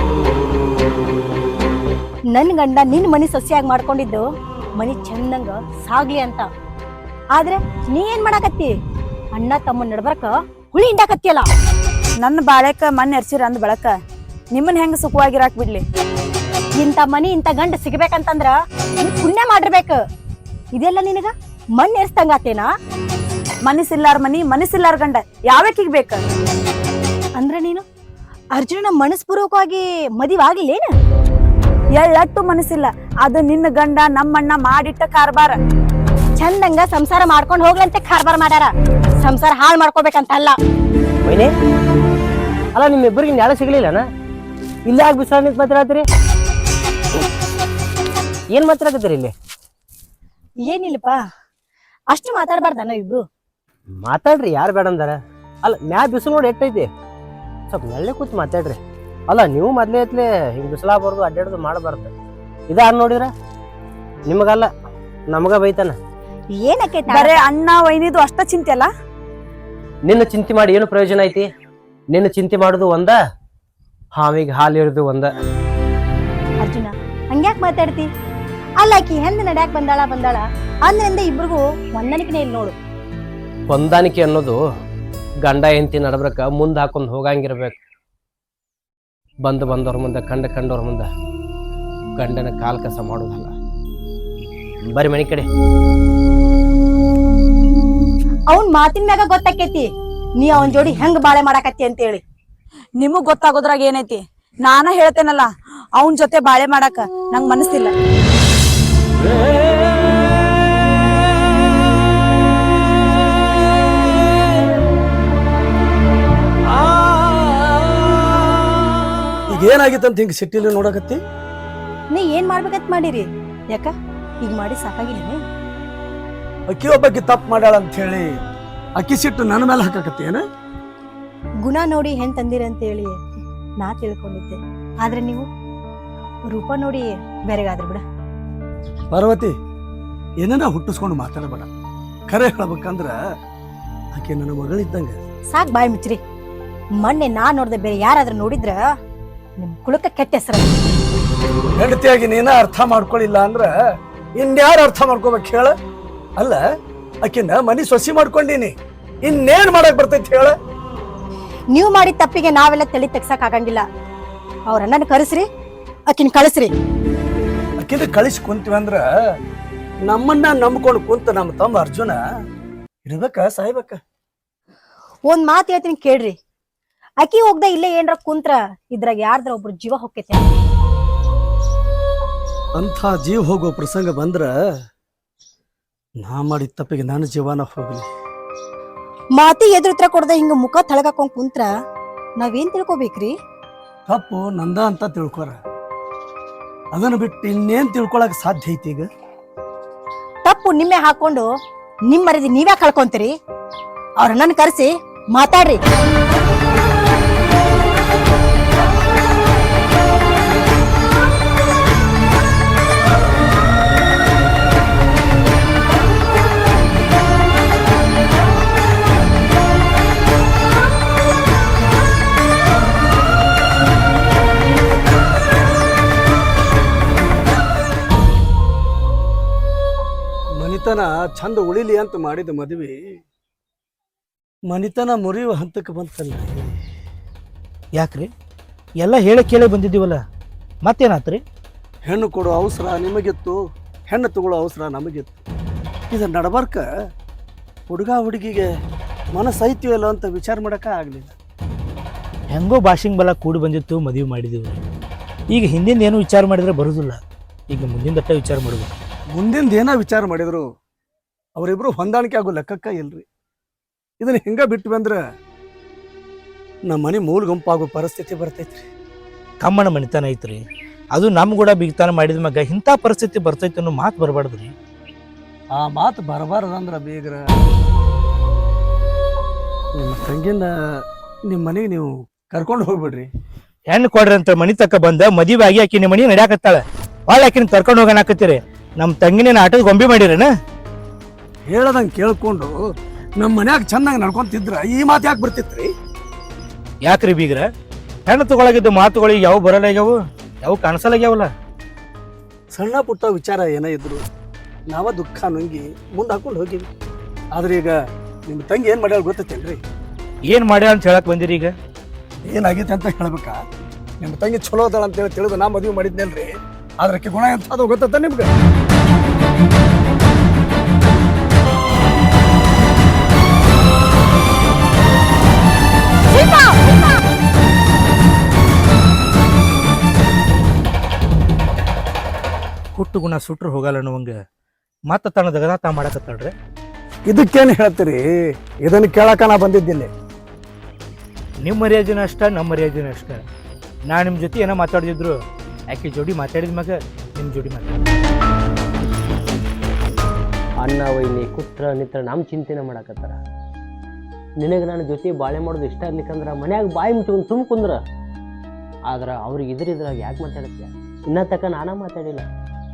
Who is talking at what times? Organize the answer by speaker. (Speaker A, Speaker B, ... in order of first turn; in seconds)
Speaker A: 2.3-4.3, 4.8-6.5, 7.3-8.7, 9.3-11.5, 16.8-20.0, 20.7-22.7, 27.4-27.8, 28.5-30.9, 36.4-40.5, 50.6-51.2, 52.1-53.2, 66.6-67.4, 76.6-78.1, 78.8-82.7, 98.5-102.2, 122.1-125.4, 131.6-135.5, 136.5-138.0, 145.5-146.2, 147.0-148.9, 149.6-150.7, 161.7-163.8, 164.7-165.4, 166.1-166.7, 175.3-176.3, 177.2-180.4, 189.3-191.7, 192.4-193.3, 200.4-201.5, 202.1-203.3, 204.2-205.8, 326.3-327.2
Speaker B: 12.2-13.9, 14.5-15.8, 23.6-26.3, 32.0-35.6, 67.1-68.9, 103.0-107.9
Speaker C: 41.2-41.5, 42.7-44.0, 44.9-46.0, 48.5-49.3, 54.0-56.9, 57.7-58.8, 59.3-62.1, 62.7-63.3, 64.3-64.7, 65.3-66.0, 70.0-71.5, 72.1-73.2, 74.2-75.3, 83.7-84.6, 85.4-87.8, 89.4-91.1, 92.2-93.5, 94.9-95.5, 350.8-353.4, 354.6-358.0, 359.1-362.5
Speaker D: 116.7-118.0, 119.5-121.2, 126.7-128.3, 129.0-130.4, 139.1-139.5, 140.4-141.7, 142.3-143.2, 144.1-145.2, 151.8-153.7, 154.4-155.7, 157.2-158.7, 159.2-160.5, 167.8-169.0, 170.1-172.2, 173.1-174.0, 182.8-184.5, 186.2-188.1, 194.1-195.6, 196.9-199.1, 230.6-233.0, 234.7-236.8, 242.1-243.6, 244.1-245.4, 246.1-246.8, 247.9-248.7, 249.3-251.3, 259.3-260.6, 261.6-263.2, 264.2-265.2, 266.9-268.9, 275.8-277.4, 280.0-280.7, 281.5-283.3, 291.7-292.7, 293.4-295.9, 302.7-304.2, 304.9-306.9, 307.5-307.9, 308.5-309.8, 312.5-313.6, 314.2-318.5, 337.3-338.2, 338.8-340.1
Speaker E: 237.9-238.3, 239.0-240.2, 240.8-241.4, 252.5-254.8, 255.5-257.2, 257.7-258.9, 269.6-270.6, 271.1-274.7, 283.9-290.5, 297.0-297.6, 298.2-301.5, 310.5-311.7, 332.9-334.3, 335.1-336.5, 341.6-343.4, 344.1-345.4, 345.9-348.0